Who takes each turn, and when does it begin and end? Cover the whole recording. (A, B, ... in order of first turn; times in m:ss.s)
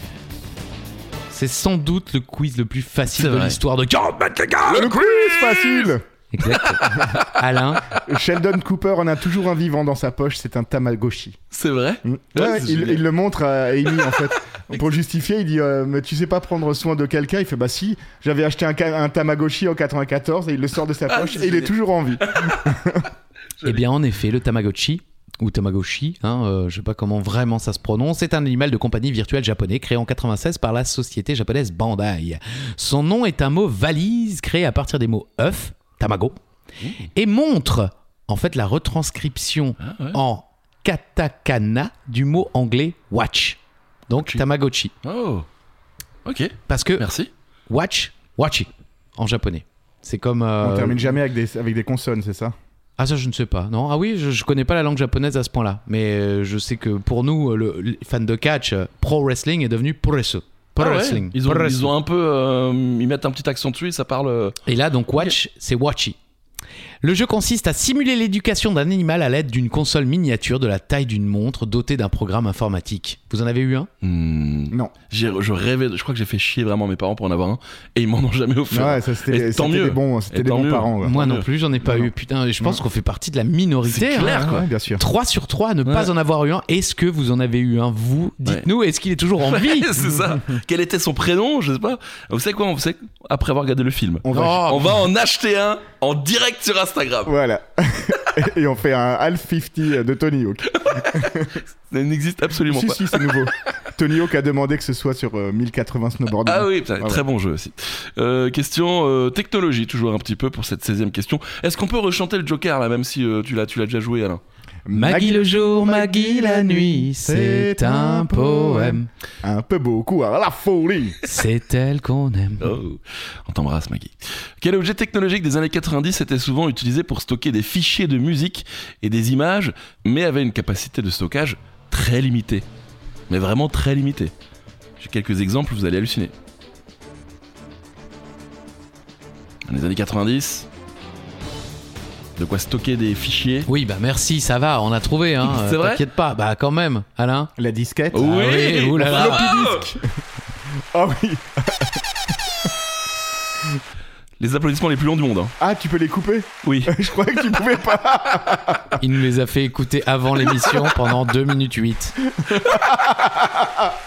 0:01.3-0:05.0 A
0:03.2-0:03.6 B
0:04.6-0:05.9 B
0:04.7-0:06.0 C
0:06.3-0:07.8 A
0:06.5-0:07.3 B
0:08.0-0:11.4 C
0:11.5-0:13.0 B
0:12.0-0:23.1 C
0:21.1-0:22.8 B
0:23.6-0:36.4 A
0:37.1-0:44.9 A
0:39.8-0:40.2 B
0:44.2-0:44.4 B
0:45.0-0:45.5 B
0:46.2-0:47.3 B
0:46.7-0:47.1 A
0:47.7-0:51.2 A
0:50.6-0:52.6 C
0:53.0-1:01.9 A
1:00.8-1:04.6 B
1:04.7-1:06.2 A
1:07.0-1:13.9 A
1:14.0-1:21.5 B
1:18.7-1:21.2 C
1:21.0-1:29.9 A
1:23.9-1:24.7 B
1:24.2-1:25.0 C
1:29.4-1:37.3 B
1:34.3-1:34.7 C
1:34.3-1:34.9 A
1:37.3-1:41.6 C
1:40.8-1:43.4 B
1:42.7-1:47.2 C
1:46.4-1:54.4 B
1:54.9-2:01.2 C
1:54.9-1:59.1 A
2:01.2-2:02.8 A
2:02.6-2:12.7 B
2:13.3-2:14.3 B
2:15.0-2:16.3 B
2:19.7-2:20.7 B
2:22.4-2:23.7 B
2:23.7-2:27.5 A
2:25.5-2:26.0 B
2:27.6-2:28.2 C
2:28.1-2:29.7 A
2:28.1-2:29.9 B
2:29.0-2:30.0 C
2:30.9-2:32.0 C
2:34.4-2:35.5 B
2:35.6-2:39.0 C
2:36.6-2:36.9 B
2:39.0-2:42.2 A
2:42.4-2:43.6 C